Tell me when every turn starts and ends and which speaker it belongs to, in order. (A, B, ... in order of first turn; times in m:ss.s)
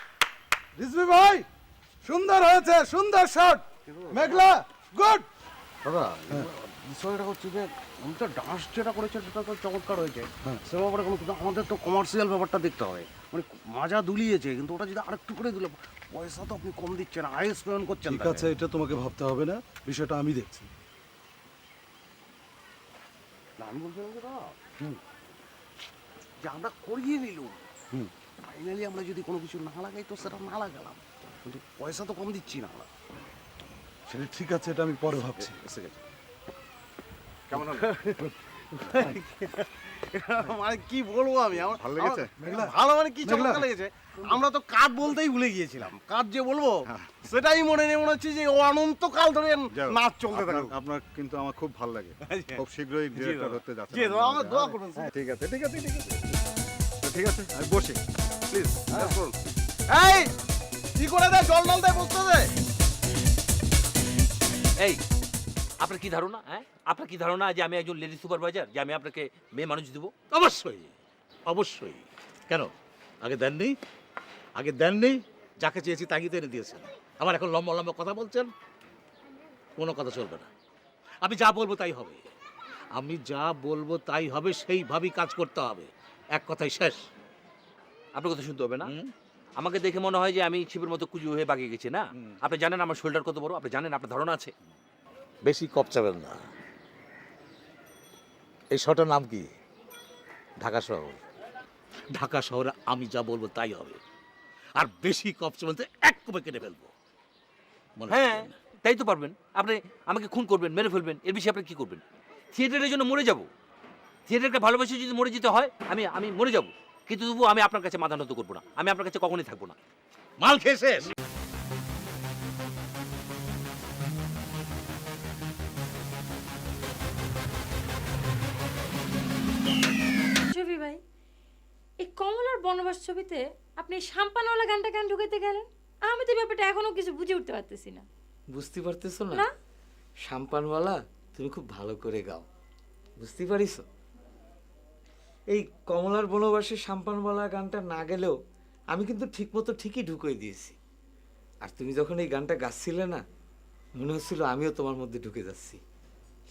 0:00.8-0:01.5 A
0:02.0-0:05.3 A
0:03.8-0:04.5 B
0:05.8-0:18.6 B
0:18.0-0:20.7 A
0:23.6-0:25.0 B
0:26.4-0:27.7 B
0:28.4-0:32.9 B
0:34.1-0:35.6 A
0:35.4-0:36.0 B
0:37.5-0:37.8 C
0:37.5-0:50.7 B
0:41.5-0:42.3 C
0:42.4-0:43.6 A
0:46.9-0:47.2 C
0:49.7-0:56.3 C
0:52.3-0:52.6 B
0:53.1-0:55.1 B
0:57.0-0:58.0 C
0:58.5-0:59.3 B
0:59.9-1:00.3 B
1:01.0-1:02.5 B
1:05.8-1:10.1 D
1:10.3-1:10.9 E
1:11.5-1:13.7 E
1:14.6-1:18.5 E
1:19.8-1:20.5 E
1:21.2-1:22.2 E
1:23.0-1:27.0 E
1:28.1-1:28.9 D
1:28.8-1:29.1 E
1:29.6-1:34.5 D
1:35.4-1:36.4 E
1:38.7-1:39.5 E
1:40.6-1:41.2 E
1:42.1-1:44.0 E
1:44.8-1:46.9 E
1:48.0-1:48.5 E
1:48.1-1:52.0 D
1:52.5-1:53.5 D
1:54.3-1:59.8 D
2:00.4-2:01.1 E
2:10.4-2:11.0 F
2:12.0-2:18.0 F
2:18.5-2:19.5 G
2:20.2-2:22.4 G
2:23.2-2:23.8 G
2:25.5-2:28.3 G
2:28.9-2:30.8 G
2:31.6-2:33.2 G
2:34.0-2:35.8 G